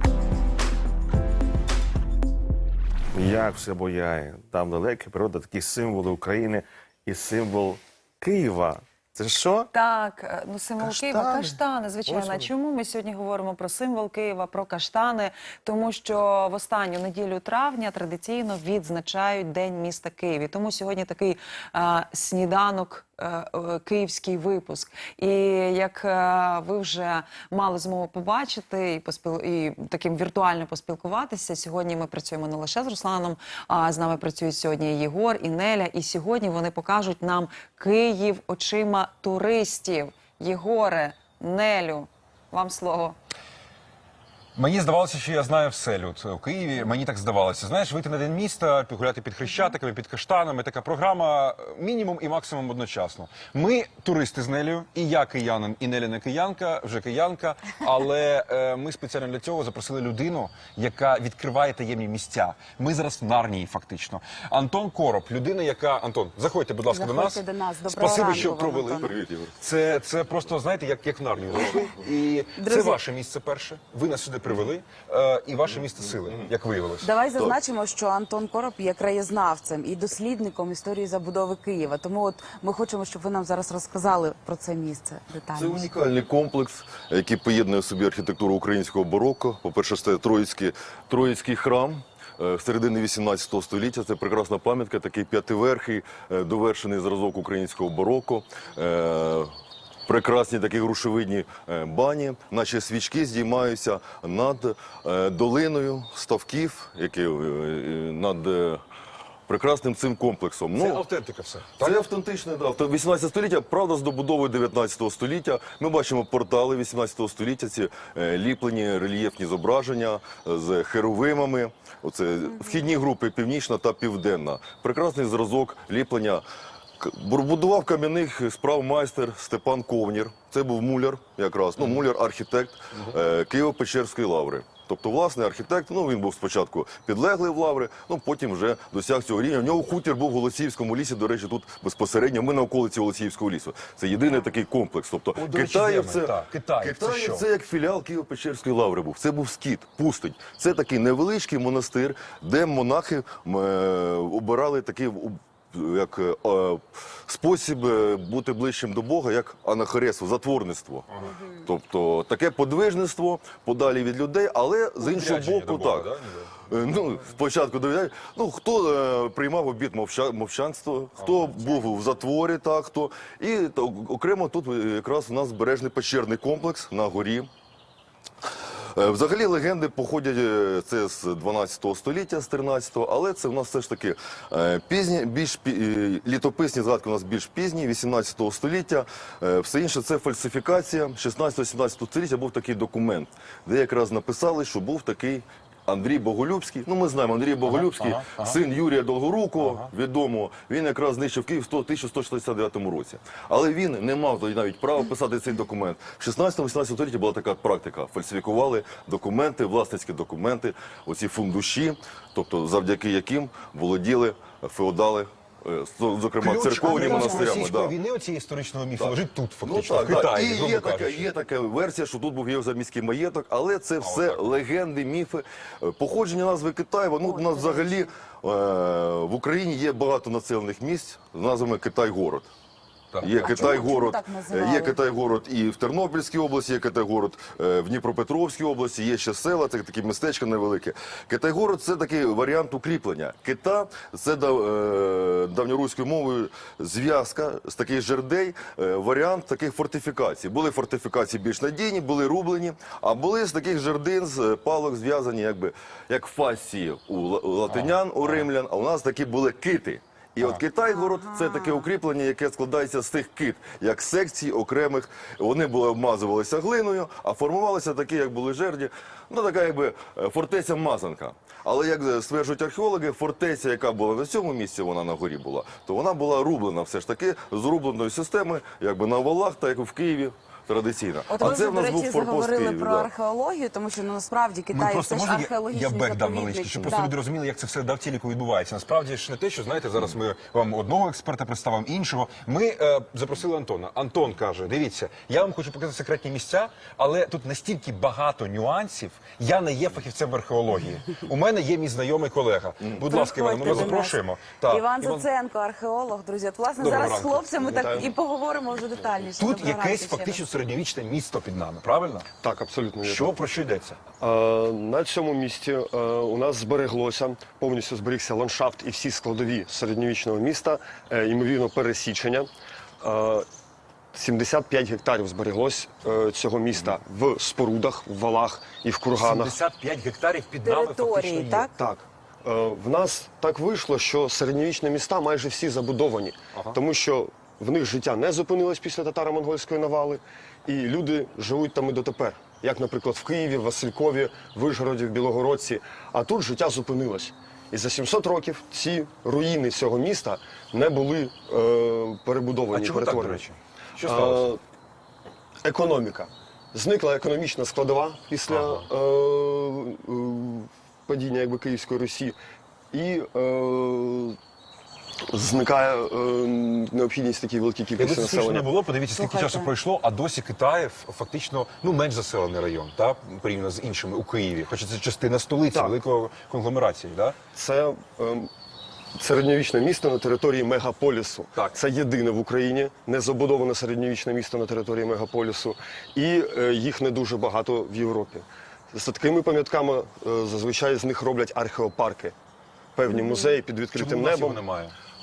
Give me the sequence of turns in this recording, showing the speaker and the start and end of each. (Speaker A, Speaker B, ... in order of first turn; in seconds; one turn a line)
Speaker A: 3.1-9.7
Speaker B: 9.7-43.2
Speaker A: 10.8-12.5
Speaker C: 44.5-77.1
Speaker D: 66.9-69.1
Speaker E: 69.0-69.5
Speaker D: 72.6-73.0
Speaker D: 77.0-85.9
Speaker E: 85.5-99.5
Speaker E: 100.1-108.8
Speaker E: 109.5-111.0
Speaker C: 110.7-112.0
Speaker E: 111.8-126.4
Speaker D: 122.5-122.8
Speaker E: 127.0-161.1
Speaker C: 145.4-147.4
Speaker D: 161.3-161.6
Speaker E: 161.6-166.1
Speaker C: 165.0-166.6
Speaker E: 166.7-177.5
Speaker C: 171.2-171.6
Speaker E: 178.9-217.9
Speaker C: 197.7-198.6
Speaker C: 199.6-199.9
Speaker C: 216.4-221.3
Speaker D: 216.9-217.5
Speaker E: 219.0-232.5
Speaker C: 224.0-224.5
Speaker D: 227.2-228.1
Speaker C: 233.1-233.6
Speaker E: 233.2-283.1
Speaker D: 233.4-235.0
Speaker C: 257.7-258.5
Speaker D: 260.8-261.9
Speaker D: 281.3-287.1
Speaker C: 284.7-305.2
Speaker D: 303.0-310.4
Speaker C: 306.8-308.1
Speaker F: 307.6-308.1
Speaker C: 309.4-312.3
Speaker F: 312.4-313.3
Speaker C: 313.0-314.0
Speaker F: 314.2-322.5
Speaker F: 323.0-323.5
Speaker F: 324.1-329.6
Speaker C: 329.1-331.7
Speaker D: 330.6-331.7
Speaker F: 331.8-353.4
Speaker C: 352.7-354.5
Speaker F: 354.1-354.6
Speaker F: 355.6-362.4
Speaker C: 358.5-358.9
Speaker F: 362.9-364.4
Speaker F: 365.3-368.7
Speaker C: 368.0-377.4
Speaker D: 369.1-369.7
Speaker F: 377.6-378.5
Speaker F: 379.2-392.4
Speaker F: 392.9-394.6
Speaker D: 393.1-393.6
Speaker C: 393.9-394.9